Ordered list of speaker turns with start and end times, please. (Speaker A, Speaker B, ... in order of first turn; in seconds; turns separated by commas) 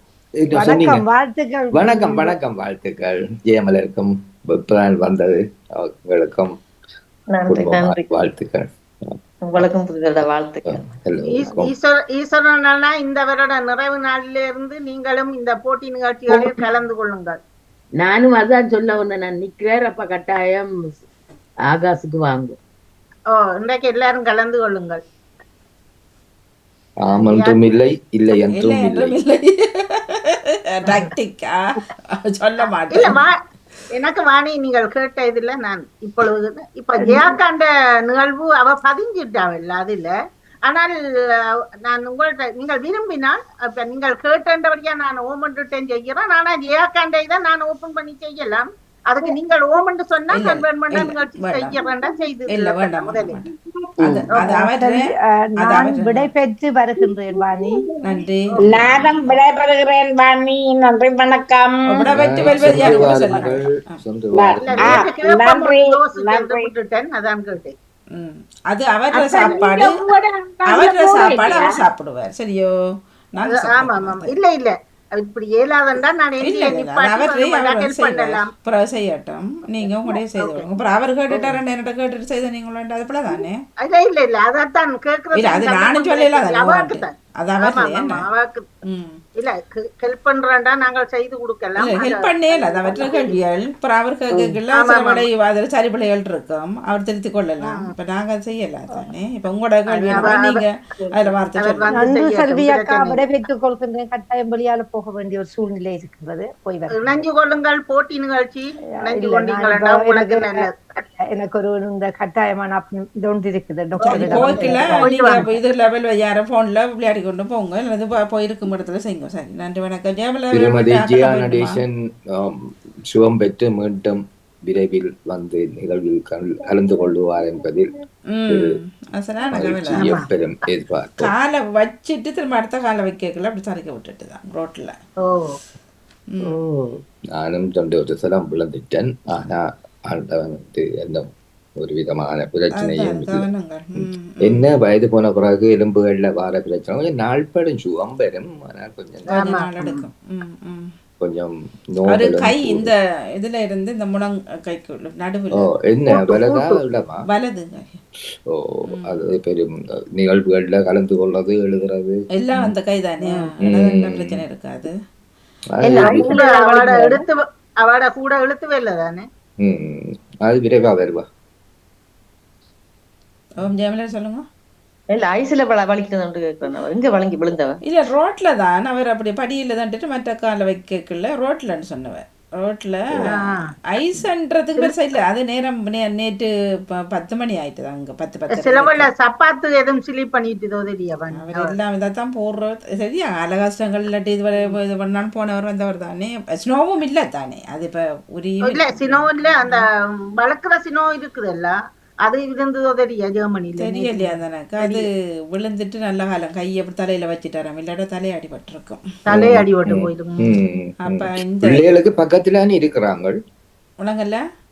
Speaker A: 0.4-1.0, Speaker B: 0.5-2.4, Speaker A: 1.7-6.5, Speaker C: 7.3-8.2, Speaker A: 7.5-9.7, Speaker C: 9.4-10.9, Speaker A: 10.7-11.7, Speaker D: 11.3-17.4, Speaker E: 16.3-16.6, Speaker E: 18.0-20.7, Speaker E: 21.7-22.6, Speaker D: 23.3-25.0, Speaker A: 27.0-29.1, Speaker D: 27.1-27.7, Speaker F: 28.3-33.2, Speaker D: 32.6-33.3, Speaker D: 34.0-40.1, Speaker B: 37.0-37.4, Speaker D: 41.9-53.4, Speaker F: 50.3-51.8, Speaker F: 52.5-53.5, Speaker F: 54.0-56.3, Speaker D: 54.3-54.6, Speaker B: 54.4-57.9, Speaker F: 58.0-59.4, Speaker D: 58.5-59.0, Speaker G: 59.1-61.8, Speaker F: 61.9-64.0, Speaker A: 62.1-65.1, Speaker D: 64.6-67.7, Speaker G: 65.4-66.7, Speaker F: 68.2-69.9, Speaker D: 69.2-69.7, Speaker G: 70.2-71.5, Speaker F: 70.7-72.7, Speaker F: 73.3-74.3, Speaker D: 73.4-78.5, Speaker F: 76.4-83.6, Speaker D: 80.4-80.7, Speaker D: 83.4-88.7, Speaker F: 85.4-88.2, Speaker F: 88.8-89.2, Speaker D: 89.4-93.4, Speaker F: 91.8-101.9, Speaker D: 94.7-95.2, Speaker D: 97.6-97.9, Speaker D: 99.9-100.6, Speaker D: 101.6-103.2, Speaker B: 101.9-107.2, Speaker D: 107.0-110.7, Speaker B: 109.0-110.7, Speaker B: 111.3-115.1, Speaker F: 114.0-121.8, Speaker D: 114.1-115.5, Speaker A: 120.5-122.5, Speaker A: 123.1-127.9, Speaker F: 128.3-130.1, Speaker A: 129.5-131.3, Speaker D: 129.9-130.2, Speaker F: 131.2-135.0, Speaker A: 137.4-141.2, Speaker A: 141.8-143.4, Speaker F: 142.7-144.8, Speaker A: 144.5-149.5, Speaker F: 149.3-150.9, Speaker D: 149.3-150.0, Speaker A: 151.2-152.9, Speaker F: 152.1-155.7, Speaker A: 155.6-157.2, Speaker D: 156.1-156.8, Speaker F: 157.3-158.0, Speaker A: 158.5-162.7, Speaker F: 158.9-159.3, Speaker F: 162.3-164.9, Speaker A: 163.6-164.4, Speaker A: 165.8-166.4, Speaker C: 165.8-167.2, Speaker D: 166.2-169.3, Speaker A: 169.6-171.2, Speaker F: 173.6-174.5, Speaker C: 175.1-177.8, Speaker F: 177.8-189.1, Speaker D: 183.3-183.7, Speaker D: 188.6-191.8, Speaker F: 191.3-199.8, Speaker D: 198.7-199.8, Speaker D: 200.4-201.7, Speaker D: 202.3-205.0, Speaker F: 203.8-209.0, Speaker D: 209.3-210.6, Speaker A: 209.3-213.3, Speaker F: 211.1-212.0, Speaker F: 214.0-214.4